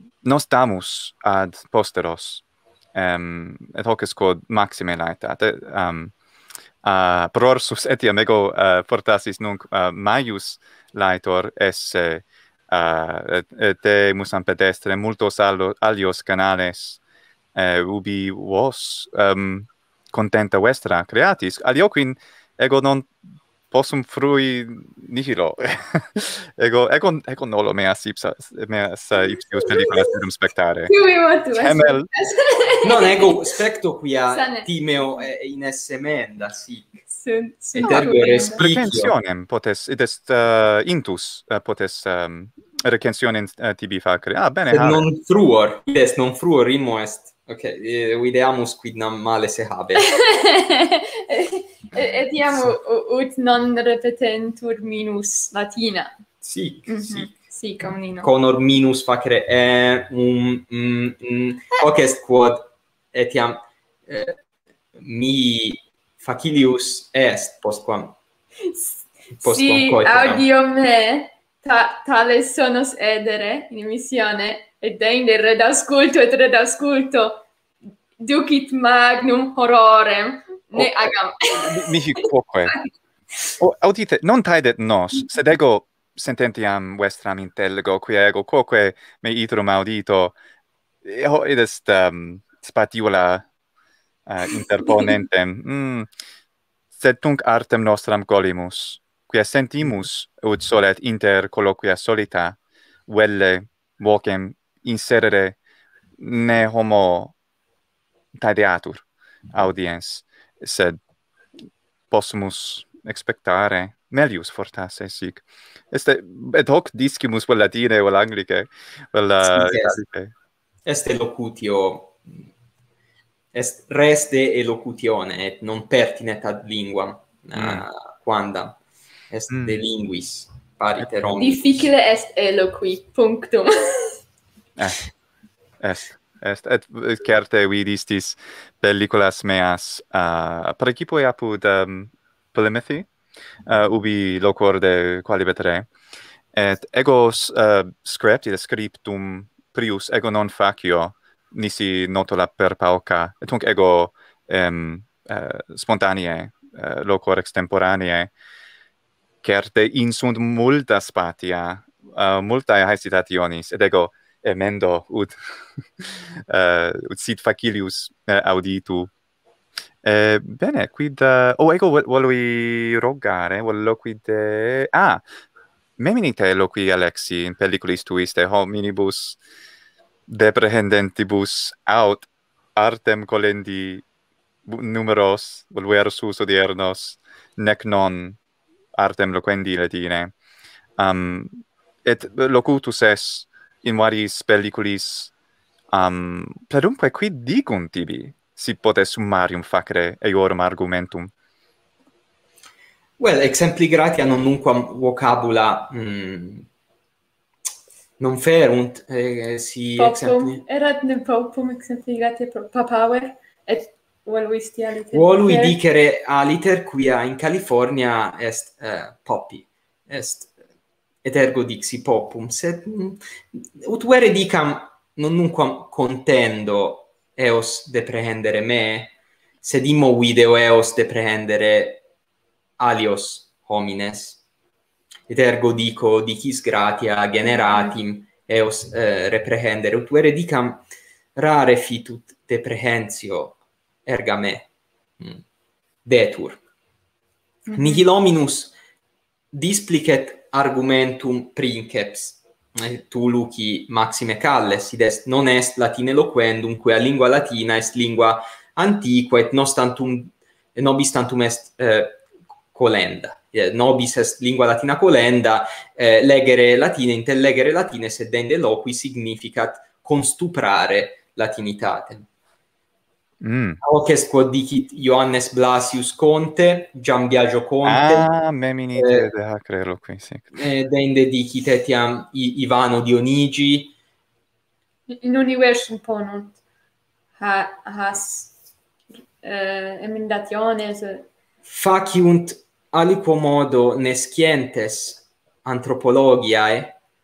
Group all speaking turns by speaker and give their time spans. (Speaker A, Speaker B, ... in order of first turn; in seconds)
Speaker A: 0.2-2.4, 3.0-6.1, 6.8-17.0, 17.6-23.1, 23.7-30.9, 31.5-32.1, 37.9-45.0, 81.5-82.8, 83.6-90.4, 91.0-93.5, 94.3-96.1, 96.9-105.6, 106.2-107.3, 108.3-111.0, 112.1-120.3, 127.5-127.8, 129.5-129.8, 134.8-135.1, 135.8-143.1, 143.7-145.9, 146.5-158.3, 159.4-165.3, 166.0-169.1, 170.0-175.2, 176.0-179.4, 180.3-184.0, 184.7-188.4, 189.0-190.3, 191.0-195.3, 195.9-201.3, 273.4-273.8, 277.8-280.5
Speaker B: 29.7-30.1, 30.9-33.3, 34.3-34.7, 37.1-38.6, 50.0-56.1, 56.9-58.3, 68.7-77.5, 78.2-82.0, 131.4-134.2, 210.0-215.8, 237.4-237.9, 247.7-248.1, 285.1-286.6, 287.4-288.5, 289.4-291.3
Speaker C: 32.8-37.0, 37.7-39.1, 44.7-50.2, 56.4-57.3, 58.2-64.4, 65.0-68.2, 69.4-70.5, 119.4-120.0, 120.8-122.5, 123.5-128.8, 129.3-131.7, 203.2-206.7, 208.2-210.6, 215.1-220.5, 221.2-232.0, 232.8-234.4, 235.3-240.8, 241.4-245.4, 246.1-246.6, 247.8-248.7, 249.5-262.2, 262.7-272.3, 273.8-278.3, 279.0-279.3, 280.6-283.9, 291.6-297.0